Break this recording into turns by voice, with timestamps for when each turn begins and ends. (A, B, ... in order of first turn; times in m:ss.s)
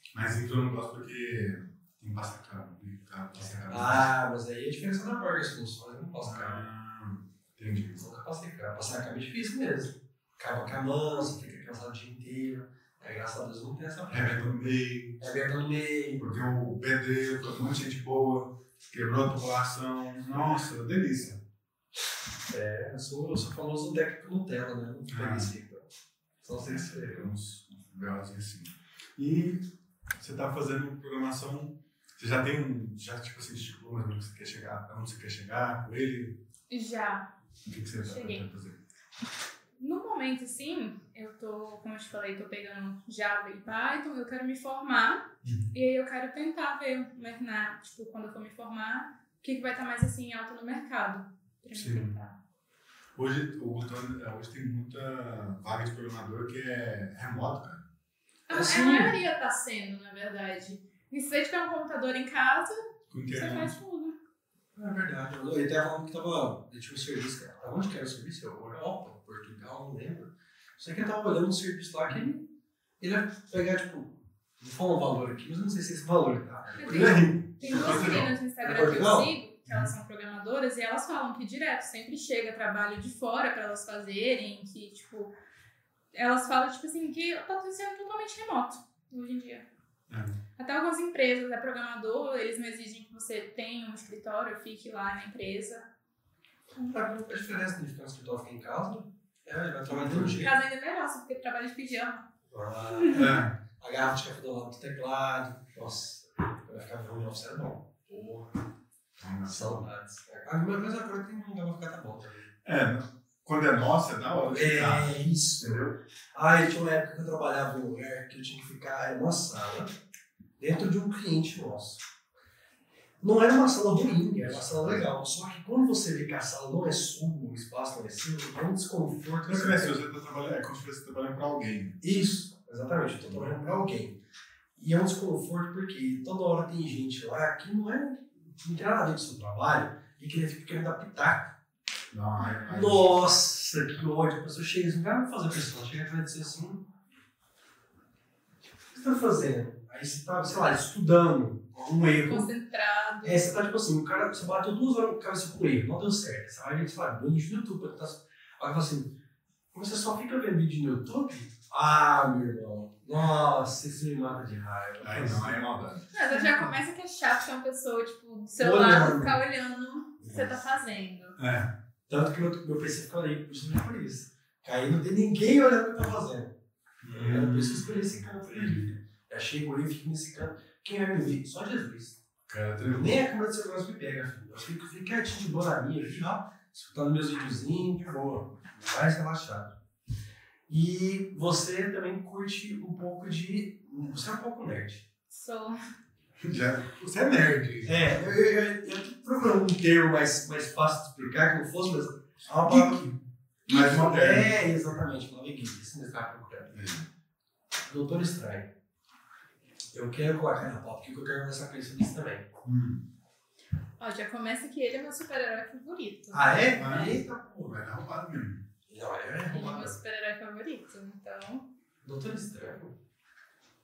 0:00.1-0:04.0 A
0:03.7-0:06.6 B
0:06.2-0:08.0 A
0:08.0-0:14.5 B
0:14.1-0:15.2 A
0:15.2-0:16.2 B
0:16.2-0:21.4 A
0:22.5-0:25.9 B
0:25.1-0:25.5 A
0:26.4-0:27.3 B
0:26.6-0:29.7 A
0:30.2-0:36.4 A
0:36.7-0:37.3 C
0:37.6-0:38.8 A
0:38.0-0:38.4 C
0:39.8-0:52.3 C
0:45.4-0:45.7 A
0:51.7-0:52.1 A
0:53.2-0:57.8 A
0:58.5-1:04.2 C
0:58.5-0:59.1 B
1:03.1-1:03.8 A
1:04.8-1:12.4 B
1:13.0-1:19.3 B
1:16.8-1:25.3 C
1:16.9-1:18.3 A
1:19.7-1:19.9 A
1:26.1-1:29.6 C
1:30.1-1:30.4 A
1:30.6-1:35.8 C
1:36.9-1:40.5 B
1:39.9-1:40.4 A
1:40.4-1:42.3 C
1:42.5-1:48.5 B
1:42.9-1:43.4 C
1:43.1-1:43.5 A
1:49.2-1:49.9 A
1:49.5-1:52.5 B
1:52.6-1:55.9 A
1:54.5-1:59.9 B
2:00.6-2:02.0 B
2:03.2-2:10.0 B
2:04.4-2:05.1 A
2:09.5-2:12.0 A
2:12.0-2:14.2 B
2:13.2-2:13.5 A
2:14.8-2:21.5 B
2:22.1-2:23.3 A
2:22.6-2:26.8 B
2:28.9-2:32.5 B
2:32.2-2:33.5 C
2:33.2-2:39.1 B
2:39.7-2:45.7 B
2:45.0-2:46.7 A
2:46.1-2:51.4 C
2:48.6-2:49.4 B
2:51.4-2:51.7 A
2:52.1-2:56.5 B
2:57.0-2:58.9 A
2:57.1-3:02.2 B
3:02.5-3:03.2 A
3:02.9-3:09.7 B
3:10.7-3:15.0 B
3:15.3-3:15.8 C
3:16.4-3:18.4 A
3:17.8-3:23.0 B
3:22.6-3:23.2 A
3:23.7-3:24.6 A
3:23.7-3:26.7 B
3:26.7-3:27.0 A
3:27.8-3:28.7 B
3:29.9-3:32.5 B
3:32.6-3:33.0 A
3:34.0-3:37.1 C
3:36.3-3:37.7 B
3:36.8-3:38.6 A
3:38.9-3:40.0 B
3:39.4-3:41.6 C
3:42.0-3:42.9 B